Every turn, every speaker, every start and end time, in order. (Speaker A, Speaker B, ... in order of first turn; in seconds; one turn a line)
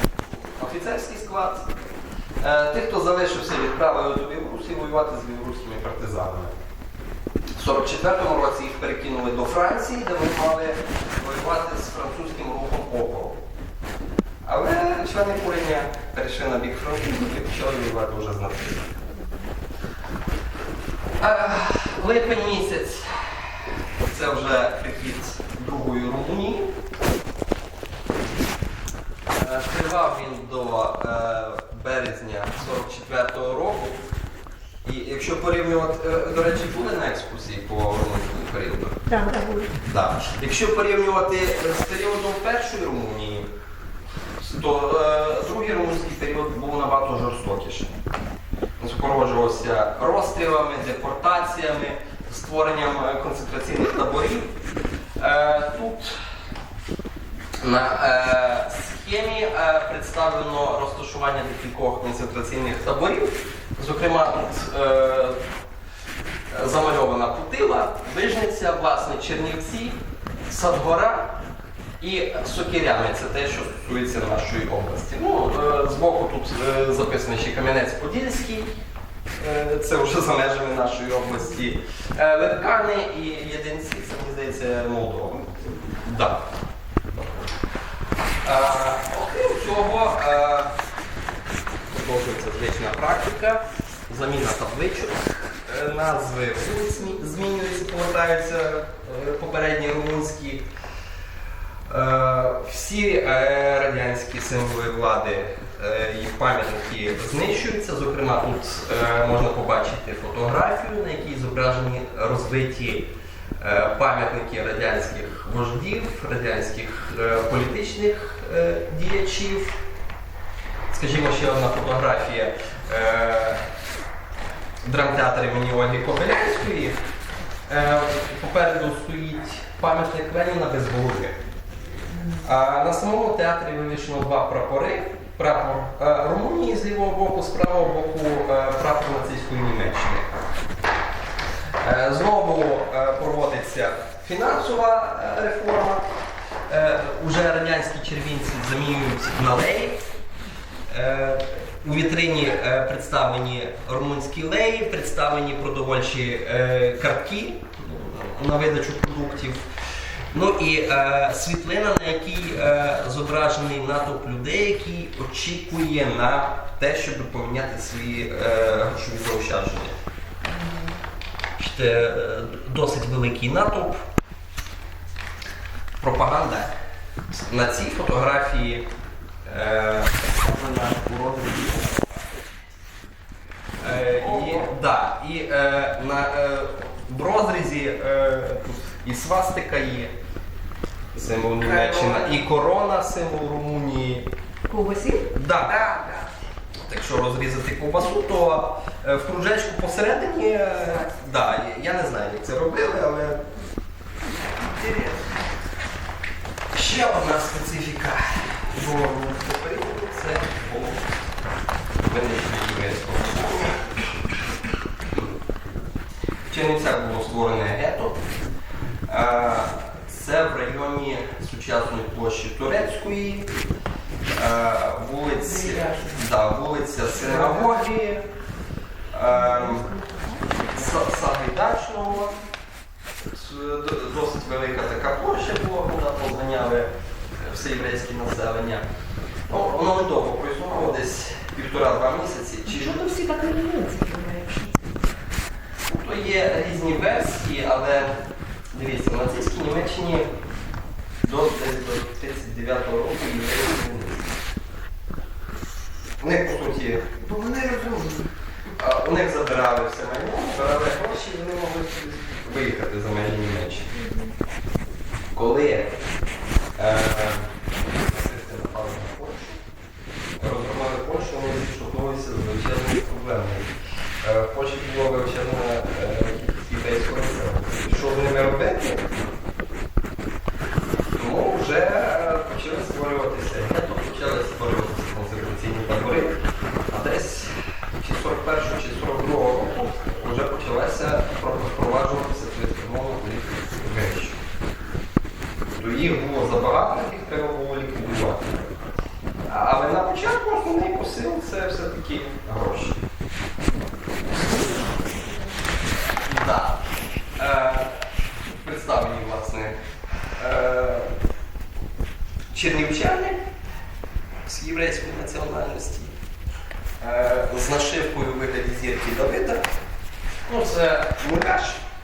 Speaker A: 0.6-1.7
Speaker A: 2.4-6.5
Speaker A: 7.5-13.4
Speaker A: 14.4-18.9
Speaker A: 21.2-23.4
Speaker A: 24.0-26.7
Speaker A: 29.3-34.0
Speaker A: 34.8-39.0
Speaker B: 39.1-39.7
Speaker A: 39.8-43.5
Speaker A: 44.4-47.9
Speaker A: 48.8-54.5
Speaker A: 55.2-56.1
Speaker A: 57.6-65.4
Speaker A: 66.5-71.4
Speaker A: 72.0-78.7
Speaker A: 79.4-86.5
Speaker A: 88.4-90.7
Speaker A: 91.9-100.7
Speaker A: 101.9-119.8
Speaker A: 120.9-123.6
Speaker A: 124.8-127.0
Speaker A: 127.7-131.4
Speaker A: 132.4-140.3
Speaker A: 141.8-146.0
Speaker A: 146.7-150.0
Speaker A: 150.9-159.6
Speaker A: 160.3-169.9
Speaker C: 170.6-170.9
Speaker A: 171.6-174.0
Speaker A: 176.0-176.7
Speaker A: 177.4-178.9
Speaker A: 179.4-182.3
Speaker A: 183.8-190.1
Speaker C: 184.2-184.6
Speaker A: 191.1-194.3
Speaker C: 191.6-192.4
Speaker B: 194.7-195.3
Speaker A: 195.3-195.8
Speaker C: 195.6-196.3
Speaker A: 196.8-203.4
Speaker C: 204.5-205.5
Speaker A: 206.7-211.1
Speaker A: 212.0-213.9
Speaker A: 216.5-218.2
Speaker A: 219.1-223.5
Speaker A: 224.3-228.2
Speaker C: 225.7-226.1
Speaker A: 229.1-229.9
Speaker B: 229.7-230.3
Speaker A: 230.7-232.4
Speaker A: 233.3-238.9
Speaker A: 239.5-243.0
Speaker B: 242.7-244.8
Speaker A: 245.8-248.1
Speaker A: 248.7-250.3
Speaker A: 251.2-254.3
Speaker A: 256.2-257.1
Speaker C: 257.2-258.3
Speaker A: 258.8-263.9
Speaker B: 264.0-264.3
Speaker A: 265.3-265.9
Speaker A: 266.8-269.6
Speaker A: 270.4-279.1
Speaker A: 281.2-286.4
Speaker A: 286.9-294.4
Speaker A: 295.7-298.7
Speaker A: 299.4-303.0
Speaker B: 303.8-305.6
Speaker A: 306.1-306.8
Speaker A: 307.4-309.8
Speaker A: 310.4-311.1
Speaker A: 312.5-313.4
Speaker A: 314.4-316.1
Speaker A: 317.0-319.7
Speaker A: 320.4-321.9